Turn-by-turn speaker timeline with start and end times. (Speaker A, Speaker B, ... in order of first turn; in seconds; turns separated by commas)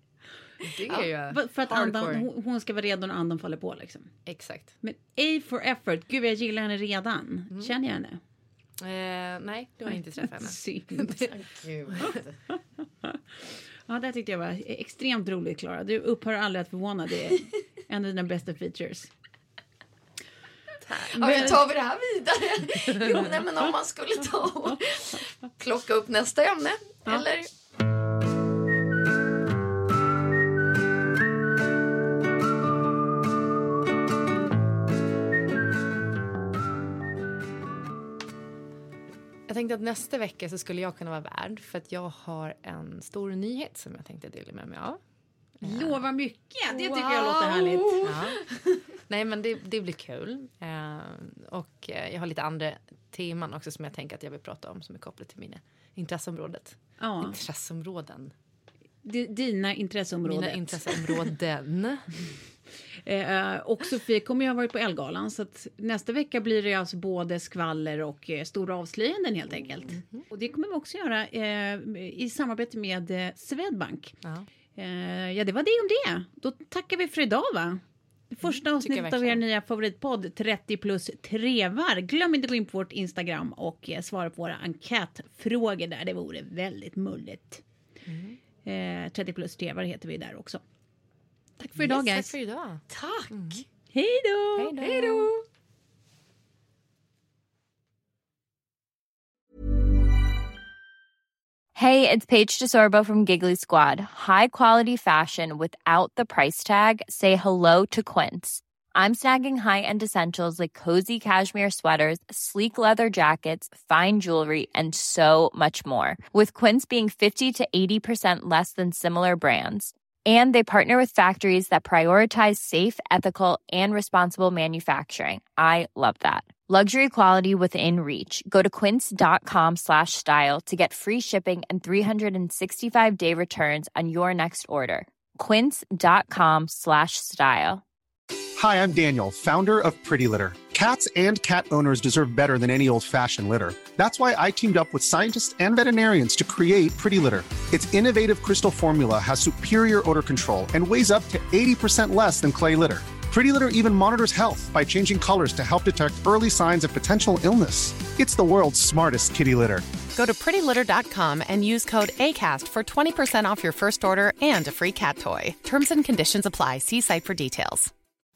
Speaker A: 0.6-2.3, Speaker B: 1.3-4.1, Speaker A: 4.3-4.7, Speaker B: 4.8-8.2, Speaker A: 8.8-11.3, Speaker B: 9.9-11.2, Speaker C: 11.3-12.4, Speaker B: 13.9-19.1, Speaker A: 20.8-21.6, Speaker C: 21.2-27.5, Speaker B: 21.2-21.6, Speaker A: 39.5-45.0, Speaker A: 45.6-46.0, Speaker B: 45.6-48.1, Speaker C: 46.7-48.8, Speaker A: 48.0-48.4, Speaker A: 49.1-58.3, Speaker B: 57.0-57.4, Speaker B: 59.0-61.2, Speaker A: 60.2-62.1, Speaker B: 63.0-74.2, Speaker C: 69.6-69.9, Speaker B: 74.8-87.6, Speaker A: 78.8-79.4, Speaker A: 88.1-88.4, Speaker B: 88.6-90.6, Speaker A: 91.6-93.6, Speaker B: 91.7-92.3, Speaker C: 92.9-93.6, Speaker B: 93.9-95.3, Speaker A: 94.6-95.3, Speaker C: 95.1-95.4, Speaker D: 101.8-137.8, Speaker E: 138.6-159.9, Speaker F: 160.2-167.9